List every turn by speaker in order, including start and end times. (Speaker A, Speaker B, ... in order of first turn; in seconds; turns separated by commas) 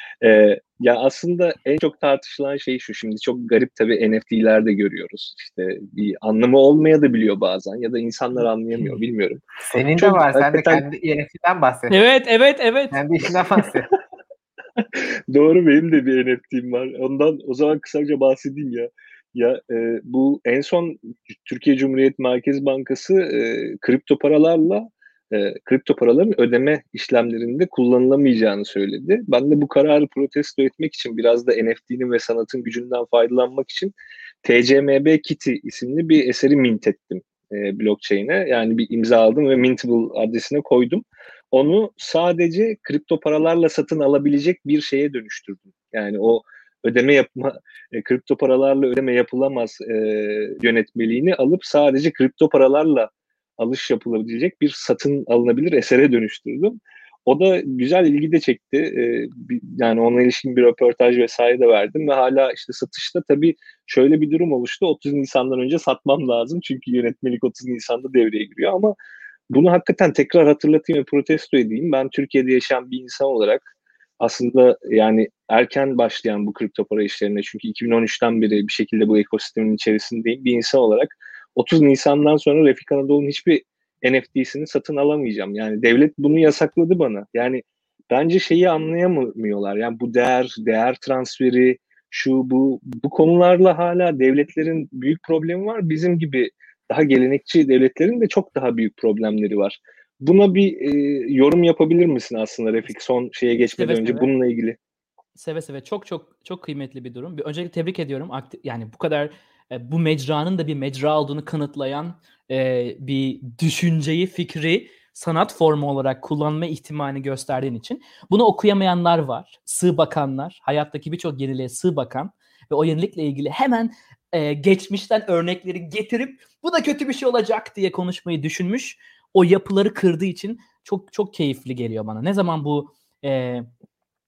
Speaker A: 0.2-9.4, Speaker B: 9.6-12.0, Speaker A: 9.9-10.8, Speaker C: 11.9-13.0, Speaker B: 12.9-13.9, Speaker A: 14.8-69.0, Speaker A: 69.5-73.7, Speaker A: 74.2-104.8, Speaker C: 103.8-104.3, Speaker C: 105.4-133.7